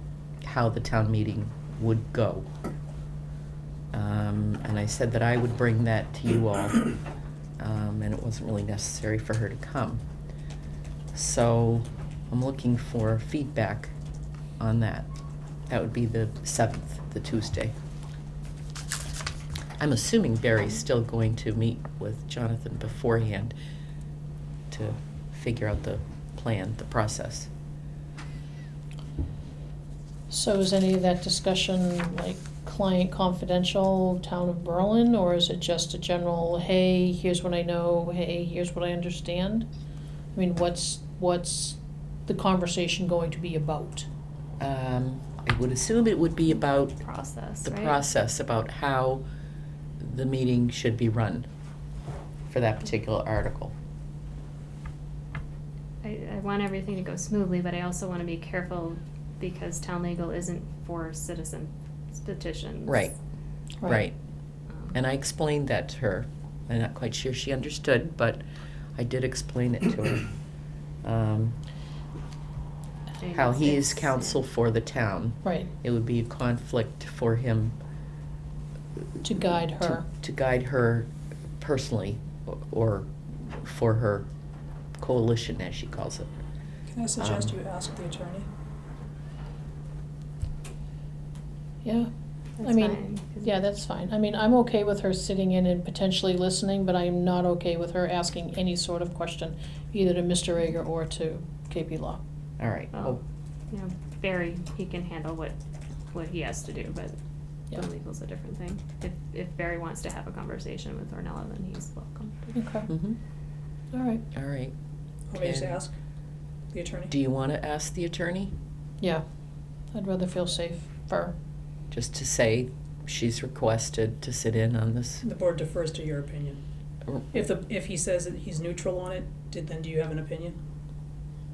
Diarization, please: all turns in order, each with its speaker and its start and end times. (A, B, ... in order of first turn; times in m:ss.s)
0:00.4-0:02.5 A
0:03.9-0:06.8 A
0:07.6-0:10.0 A
0:11.1-0:13.9 A
0:14.6-0:15.1 A
0:15.7-0:17.7 A
0:19.8-0:23.6 A
0:24.7-0:27.5 A
0:30.3-0:39.7 B
0:40.3-0:44.1 B
0:44.6-0:47.0 A
0:47.0-0:48.0 C
0:47.6-0:49.2 A
0:50.0-0:51.5 A
0:52.5-0:53.7 A
0:56.0-1:03.1 C
1:02.9-1:03.1 A
1:03.8-1:04.2 A
1:04.9-1:08.4 A
1:09.0-1:10.3 A
1:11.0-1:11.6 A
1:13.2-1:14.4 C
1:13.3-1:17.8 A
1:15.4-1:15.7 B
1:19.2-1:20.1 B
1:19.8-1:24.3 A
1:25.0-1:26.3 A
1:26.9-1:28.5 D
1:27.2-1:27.6 A
1:31.8-1:32.1 B
1:32.6-1:33.5 C
1:32.6-1:42.2 B
1:42.6-1:43.2 A
1:42.9-1:43.2 C
1:43.7-1:45.6 C
1:46.1-1:47.2 C
1:47.7-1:52.6 C
1:52.5-1:52.9 B
1:52.9-1:53.2 A
1:53.9-1:54.2 B
1:54.3-1:54.7 A
1:55.3-1:55.9 D
1:55.4-1:55.8 A
1:56.7-1:57.1 D
1:57.1-1:58.5 A
1:59.9-2:01.3 B
2:01.9-2:05.2 A
2:05.2-2:06.6 D
2:07.3-2:10.6 D